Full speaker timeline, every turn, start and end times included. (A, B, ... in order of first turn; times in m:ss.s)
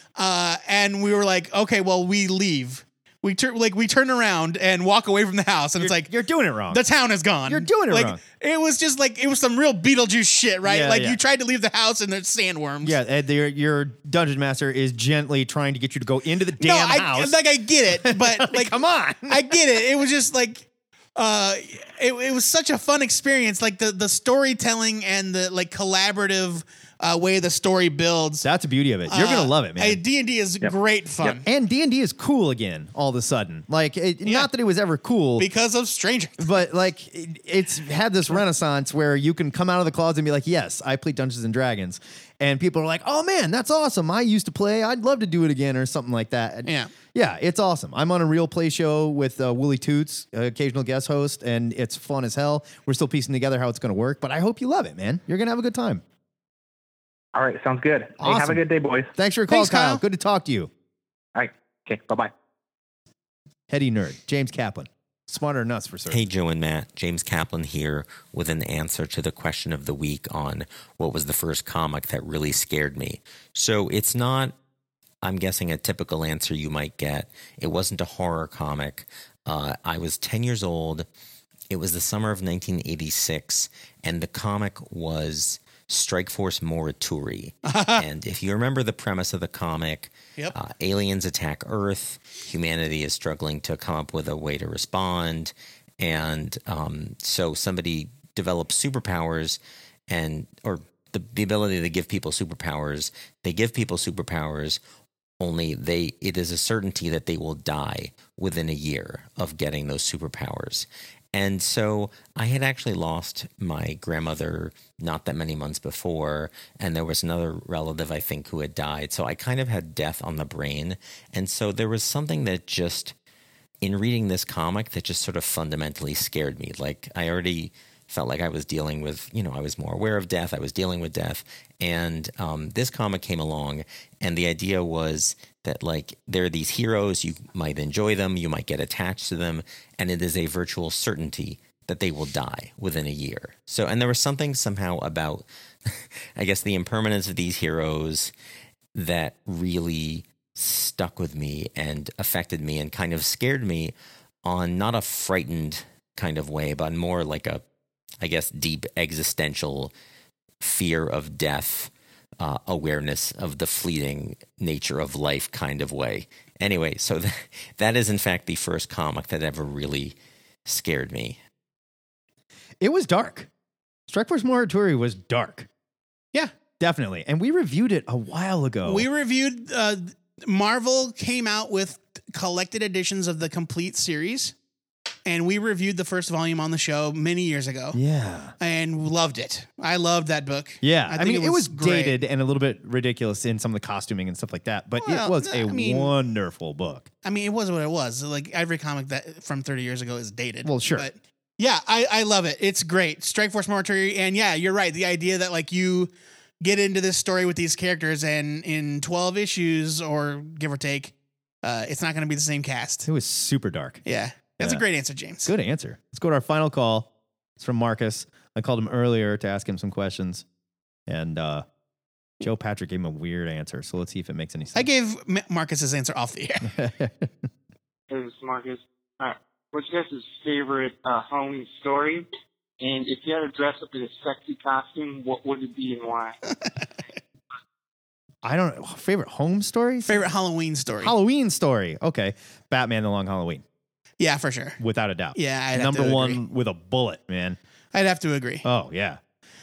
0:00.2-0:06.1 A
0:05.8-0:06.8 B
0:06.7-0:13.0 A
0:07.5-0:08.2 B
0:10.6-0:11.2 B
0:12.8-0:19.8 B
0:16.6-0:28.4 A
0:28.4-0:30.0 B
0:29.1-0:31.4 A
0:31.4-0:35.5 B
0:34.2-0:34.5 A
0:35.4-0:36.5 A
0:36.4-0:56.0 B
0:46.6-0:46.9 A
0:57.4-0:59.1 C
0:58.2-0:58.6 B
0:59.2-1:00.7 B
0:59.5-1:00.0 A
1:01.4-1:02.3 C
1:03.7-1:06.2 B
1:06.1-1:14.5 D
1:15.2-1:21.1 D
1:21.7-1:44.8 D
1:27.7-1:28.0 A
1:45.4-2:03.2 D
2:03.8-2:25.5 D
2:26.4-2:28.3 D
2:29.0-2:37.6 D
2:38.2-2:39.9 D
2:40.6-2:51.4 D
2:52.8-2:53.5 B
2:54.1-2:55.7 B
2:56.8-2:59.1 B
2:58.8-3:04.5 A
3:05.3-3:08.0 A
3:07.9-3:08.6 B
3:08.6-3:12.2 A
3:10.8-3:17.1 B
3:15.0-3:16.1 A
3:17.2-3:33.1 A
3:20.6-3:21.1 B
3:33.1-3:34.0 B
3:34.0-3:35.5 A
3:34.6-3:34.8 B
3:35.4-3:40.4 B
3:41.1-3:41.6 B
3:42.4-3:44.9 B
3:44.8-3:46.7 A
3:46.7-3:47.3 B
3:48.1-3:52.3 E
3:52.8-3:56.4 E
3:58.4-4:00.3 B
4:00.0-4:01.2 A
4:01.0-4:03.6 B
4:04.2-4:04.8 A
4:04.8-4:07.6 B
4:05.4-4:06.4 A
4:07.9-4:08.7 A
4:08.6-4:09.2 B